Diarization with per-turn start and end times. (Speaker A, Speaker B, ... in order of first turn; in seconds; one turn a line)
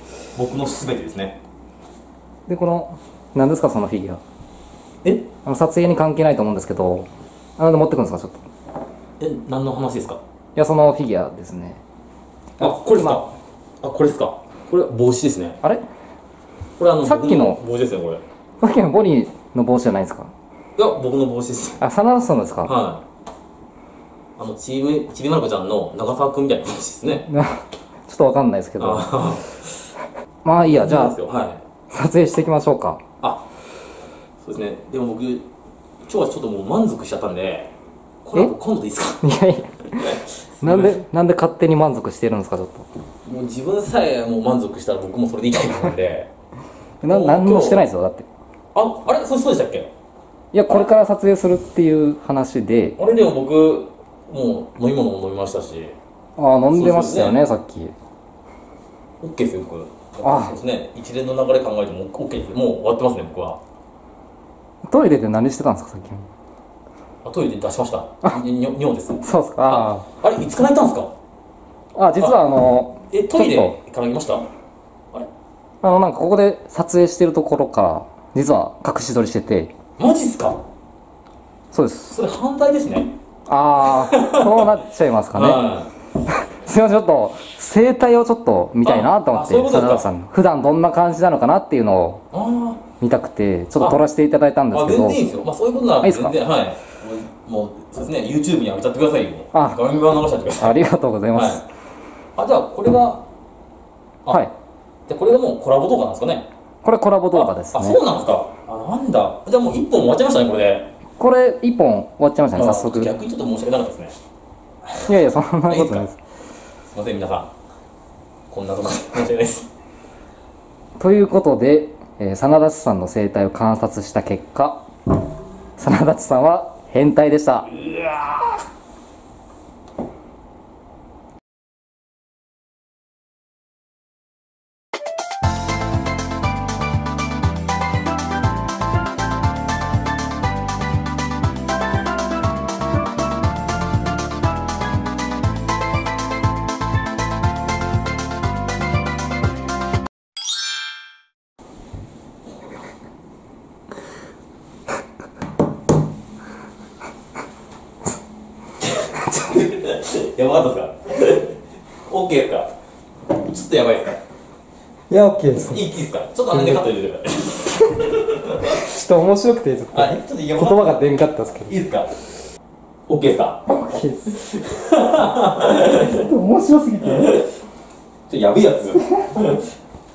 Speaker A: 0.3-1.4
Speaker B: 2.5-4.2
Speaker B: 5.4-7.1
Speaker B: 7.6-8.4
Speaker A: 9.2-10.2
Speaker B: 10.6-11.8
Speaker B: 12.6-13.2
Speaker A: 12.6-15.6
Speaker A: 16.8-18.2
Speaker B: 17.0-17.6
Speaker B: 18.6-20.3
Speaker A: 20.8-21.8
Speaker B: 21.8-22.7
Speaker A: 22.6-23.0
Speaker A: 24.4-27.3
Speaker B: 27.3-29.3
Speaker A: 28.8-29.9
Speaker B: 30.4-31.1
Speaker A: 30.6-31.6
Speaker B: 31.9-33.0
Speaker A: 34.4-35.5
Speaker A: 36.0-37.7
Speaker A: 38.2-39.2
Speaker B: 39.2-42.9
Speaker A: 39.9-41.0
Speaker A: 43.2-46.3
Speaker B: 47.0-48.3
Speaker A: 47.0-47.9
Speaker A: 48.7-49.9
Speaker B: 50.5-53.0
Speaker A: 53.0-55.9
Speaker B: 56.4-57.9
Speaker A: 56.7-57.4
Speaker A: 59.2-63.6
Speaker B: 60.2-60.5
Speaker B: 64.8-66.3
Speaker A: 67.2-71.1
Speaker B: 69.2-70.1
Speaker B: 71.9-73.8
Speaker A: 73.1-74.5
Speaker B: 75.8-79.7
Speaker A: 80.0-80.6
Speaker B: 81.7-82.2
Speaker A: 82.1-83.1
Speaker B: 83.5-85.6
Speaker A: 83.8-84.8
Speaker A: 85.3-85.9
Speaker B: 86.2-92.2
Speaker A: 88.8-90.1
Speaker A: 92.3-92.8
Speaker B: 93.0-95.3
Speaker A: 94.7-100.8
Speaker B: 96.0-96.3
Speaker B: 99.5-99.8
Speaker B: 100.6-101.6
Speaker A: 101.3-101.6
Speaker A: 102.3-103.2
Speaker A: 105.1-106.5
Speaker B: 106.8-108.0
Speaker A: 107.3-110.9
Speaker B: 111.2-113.1
Speaker A: 112.5-114.1
Speaker B: 115.0-116.2
Speaker A: 115.7-116.1
Speaker A: 116.9-117.5
Speaker A: 118.5-119.7
Speaker B: 121.0-124.8
Speaker B: 125.8-127.8
Speaker A: 158.8-162.7
Speaker B: 159.2-159.6
Speaker A: 163.3-164.2
Speaker B: 165.1-165.8
Speaker A: 165.7-168.7
Speaker B: 166.5-166.8
Speaker B: 168.6-171.7
Speaker A: 169.9-171.0
Speaker A: 171.7-172.2
Speaker A: 173.1-173.6
Speaker B: 173.7-174.4
Speaker A: 174.3-176.1
Speaker B: 175.6-177.4
Speaker A: 178.3-179.6